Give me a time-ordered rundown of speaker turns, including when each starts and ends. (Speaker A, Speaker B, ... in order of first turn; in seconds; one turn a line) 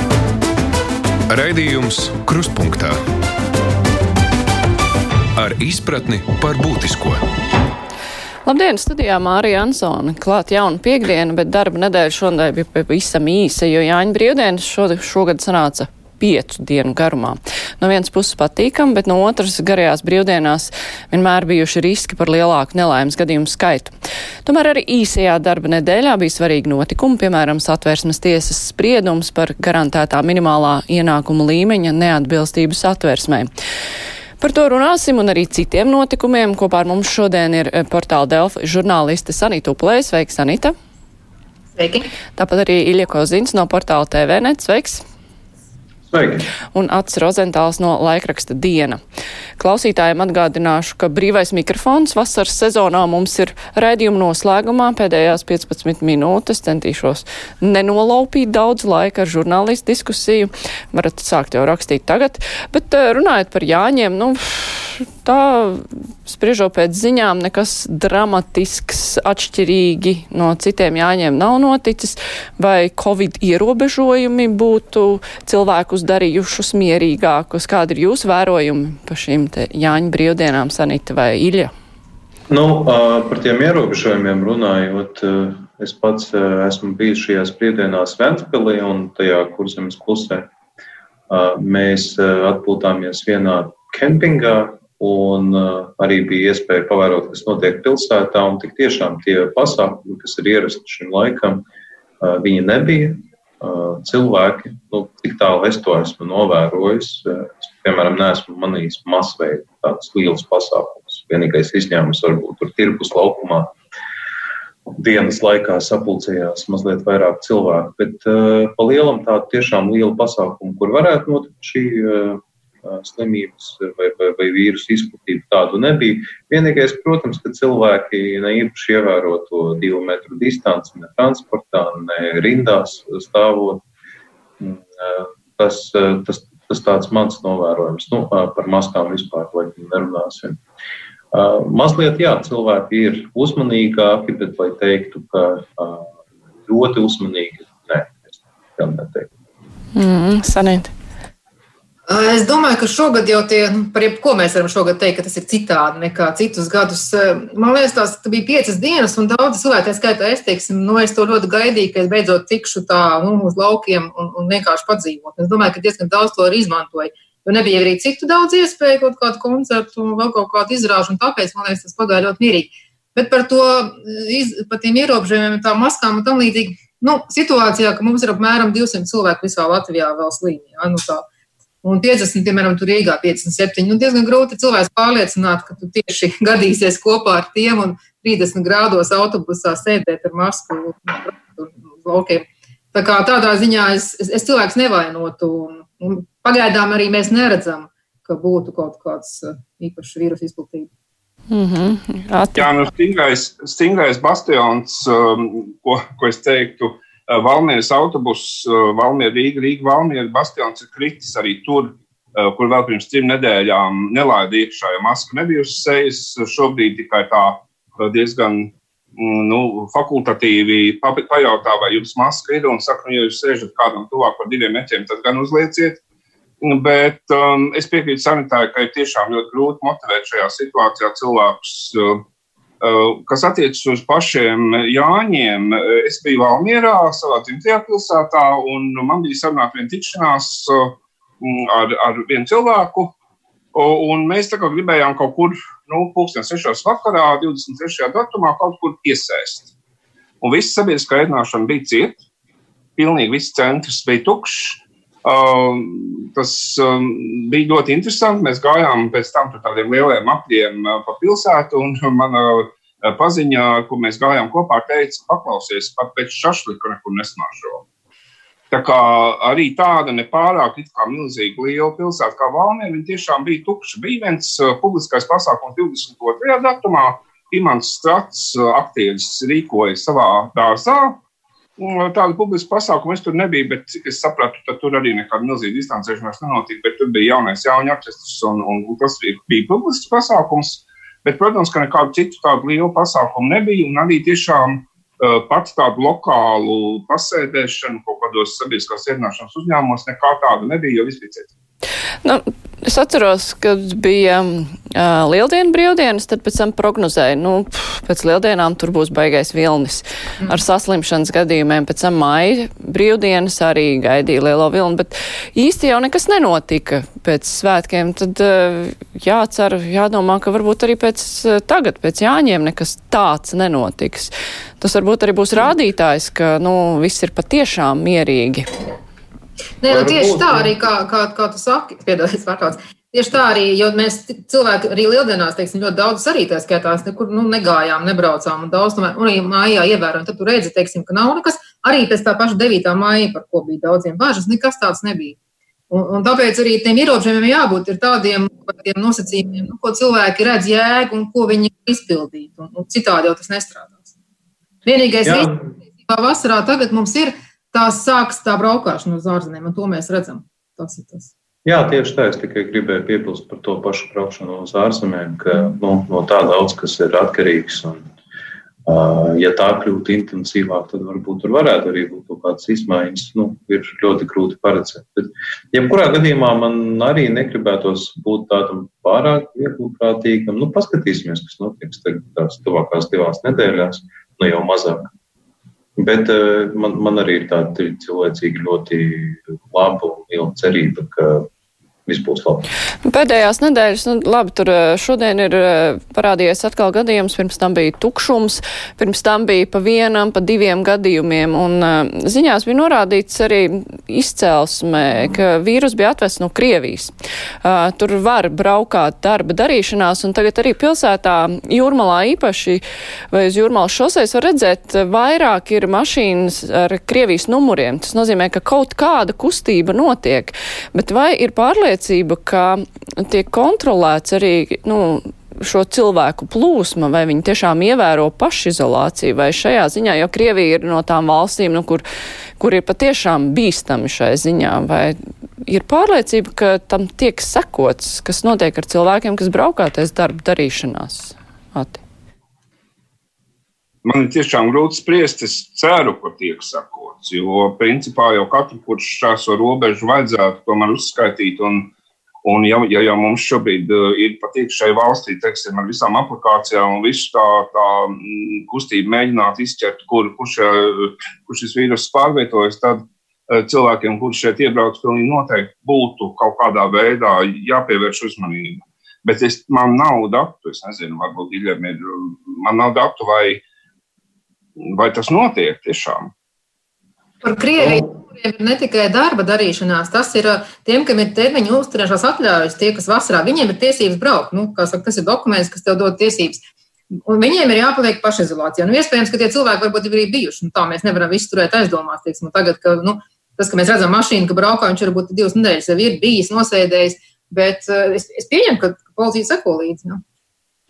Speaker A: 1.3-3.0
Speaker A: 5.4-7.2
Speaker B: 8.4-33.5
Speaker B: 34.4-40.8
Speaker C: 41.8-42.1
Speaker B: 42.4-45.0
Speaker D: 46.1-46.5
Speaker B: 46.7-49.0
Speaker B: 49.6-81.7
Speaker D: 82.5-90.5
Speaker D: 91.3-101.6
Speaker D: 102.2-113.7
Speaker D: 114.9-133.8
Speaker D: 134.6-140.6
Speaker D: 141.3-146.1
Speaker D: 146.7-149.3
Speaker B: 149.9-150.9
Speaker C: 152.1-181.2
Speaker C: 181.8-200.9
Speaker B: 201.5-202.7
Speaker E: 202.6-226.0
Speaker E: 226.6-232.2
Speaker E: 232.8-243.1
Speaker E: 243.7-249.7
Speaker E: 250.4-252.2
Speaker E: 253.0-267.9
Speaker E: 268.7-281.2
Speaker E: 281.8-301.5
Speaker B: 302.2-328.7
Speaker C: 329.8-345.4
Speaker D: 329.9-330.8
Speaker C: 345.9-354.1
Speaker C: 354.9-355.5
Speaker D: 355.2-355.6
Speaker C: 356.1-361.3
Speaker D: 361.6-368.1
Speaker D: 368.9-385.1
Speaker D: 386.0-391.5
Speaker D: 392.1-392.7
Speaker B: 393.1-432.0
Speaker B: 432.6-442.0
Speaker E: 444.0-451.9
Speaker E: 452.4-473.6
Speaker E: 474.8-476.3
Speaker C: 477.4-486.6
Speaker C: 487.1-500.2